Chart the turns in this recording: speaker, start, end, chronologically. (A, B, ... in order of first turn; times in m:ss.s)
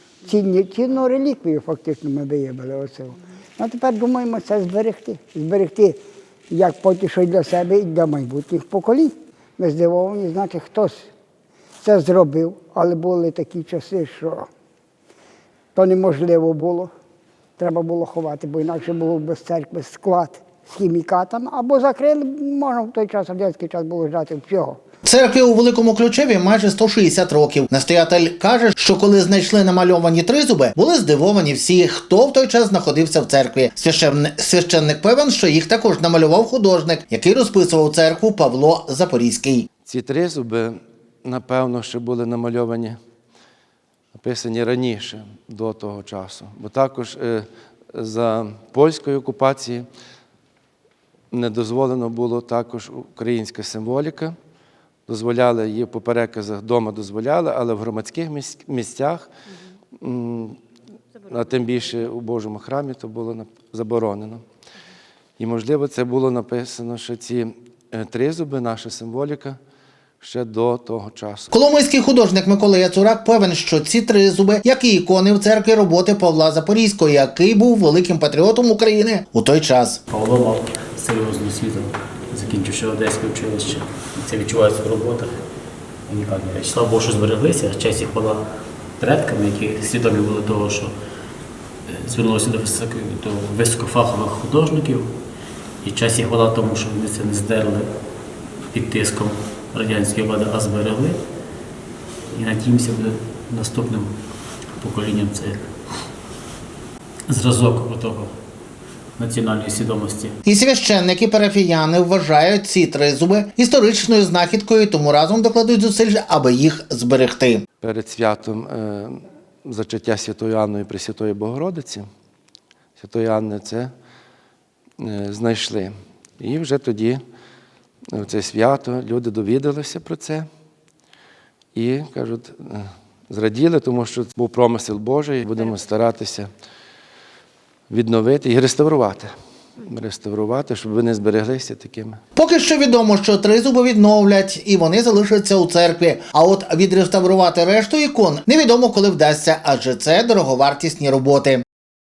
0:00.2-0:06.0 A
0:06.5-0:11.1 A
0:11.8-0:14.5 A
0:15.7-0:16.9 A
0:17.6-0:24.8 A
0:25.0-0:39.7 B
0:39.8-0:43.0 C
0:44.1-0:49.8 C
0:51.3-0:54.4 C
0:55.1-0:59.3 C
1:00.0-1:00.6 C
1:01.2-1:04.4 C
1:05.4-1:09.6 C
1:10.2-1:11.5 C
1:11.5-1:20.0 B
1:20.1-1:25.4 D
1:26.1-1:28.4 D
1:29.0-1:30.9 D
1:31.8-1:35.1 D
1:35.8-1:37.9 D
1:38.7-1:41.2 D
1:42.3-1:44.1 D
1:44.8-1:45.7 D
1:47.3-1:48.3 D
1:49.2-1:50.3 D
1:50.4-1:57.6 B
1:57.8-2:02.0 C
2:03.0-2:03.9 C
2:05.0-2:07.2 C
2:08.1-2:10.5 C
2:11.7-2:16.5 C
2:17.9-2:22.2 C
2:22.4-2:31.6 B